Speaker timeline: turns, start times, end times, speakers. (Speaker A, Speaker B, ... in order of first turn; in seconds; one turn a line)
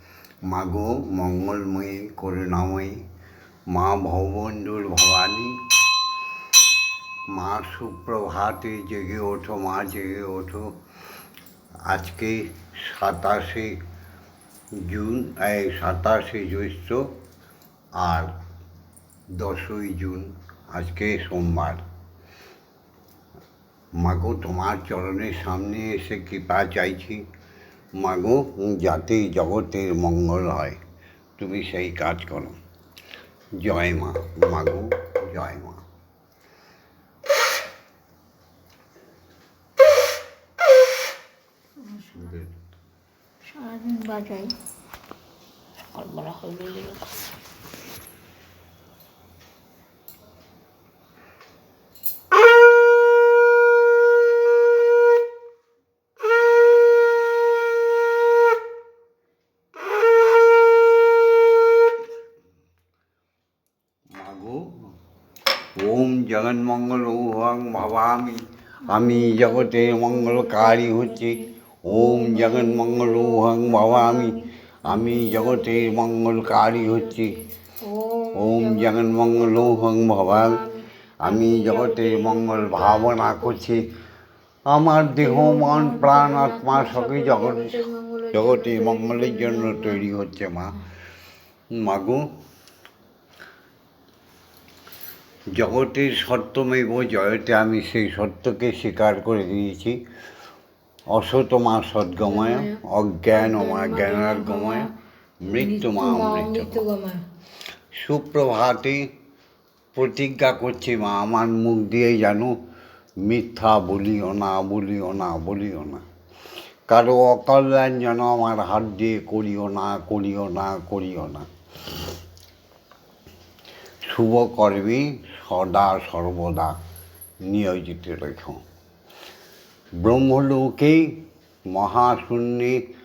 Speaker A: 0.5-3.0
Speaker A: 3.7-5.5
Speaker A: 7.3-10.7
Speaker A: 11.9-13.7
Speaker A: 14.8-17.1
Speaker A: 18.0-18.3
Speaker A: 19.3-21.8
Speaker A: 24.0-27.2
Speaker A: 28.0-30.8
Speaker A: 31.4-32.6
Speaker A: 33.6-35.8
Speaker B: 41.8-42.4
Speaker A: 42.2-42.5
Speaker B: 43.4-44.5
Speaker B: 45.9-47.2
Speaker A: 64.1-64.8
Speaker A: 65.8-77.4
Speaker B: 68.9-83.8
Speaker A: 78.3-80.6
Speaker A: 81.2-83.9
Speaker A: 84.7-90.8
Speaker B: 85.0-90.0
Speaker A: 91.7-92.3
Speaker A: 95.5-100.0
Speaker A: 101.1-104.9
Speaker B: 102.2-102.8
Speaker B: 103.3-104.9
Speaker A: 105.4-106.8
Speaker B: 105.5-107.2
Speaker A: 107.9-109.1
Speaker A: 109.9-112.6
Speaker A: 113.2-116.0
Speaker A: 116.9-121.5
Speaker A: 124.0-126.8
Speaker A: 127.4-128.6
Speaker A: 130.0-131.2
Speaker A: 131.7-132.8